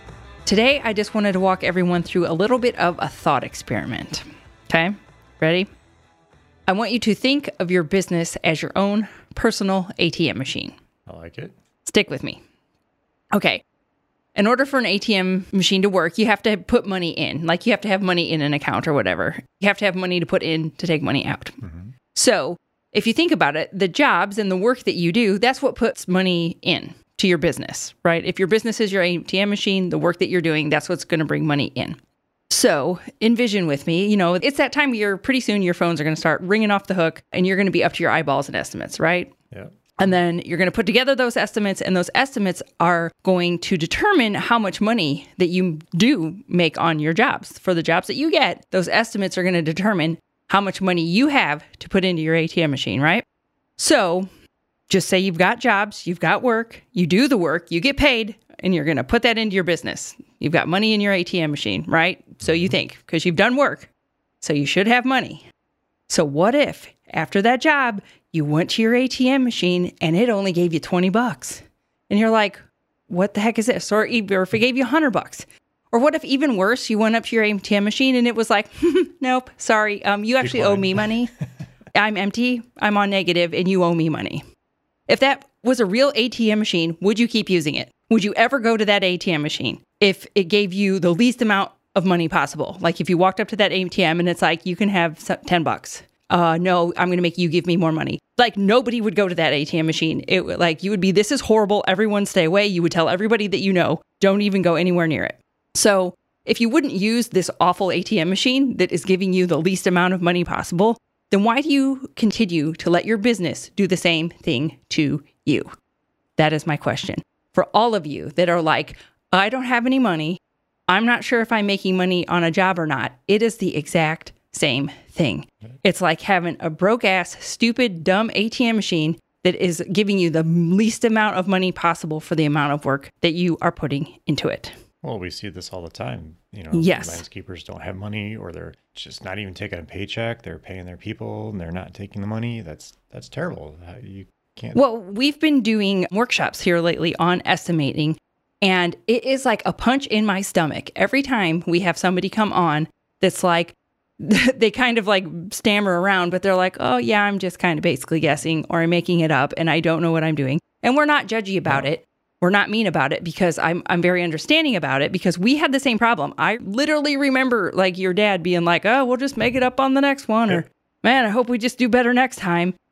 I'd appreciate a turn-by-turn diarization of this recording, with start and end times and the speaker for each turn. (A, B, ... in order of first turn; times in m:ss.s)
0:00.4-0:05.7 A
0:06.7-0:10.7 A
0:11.1-0:11.5 B
0:11.8-0:12.4 A
0:13.3-0:13.6 A
0:14.3-0:21.5 A
0:21.6-0:21.9 B
0:22.1-0:32.0 A
0:32.5-0:39.3 A
0:40.0-0:53.2 A
0:53.8-0:54.3 A
0:54.9-1:03.9 A
1:02.4-1:02.7 B
1:04.4-1:05.4 A
1:06.1-1:21.3 A
1:20.4-1:21.4 B
1:21.9-1:24.4 A
1:25.1-1:55.7 A
1:56.4-2:14.7 A
2:15.0-2:24.8 B
2:16.7-2:17.2 A
2:24.7-2:52.7 A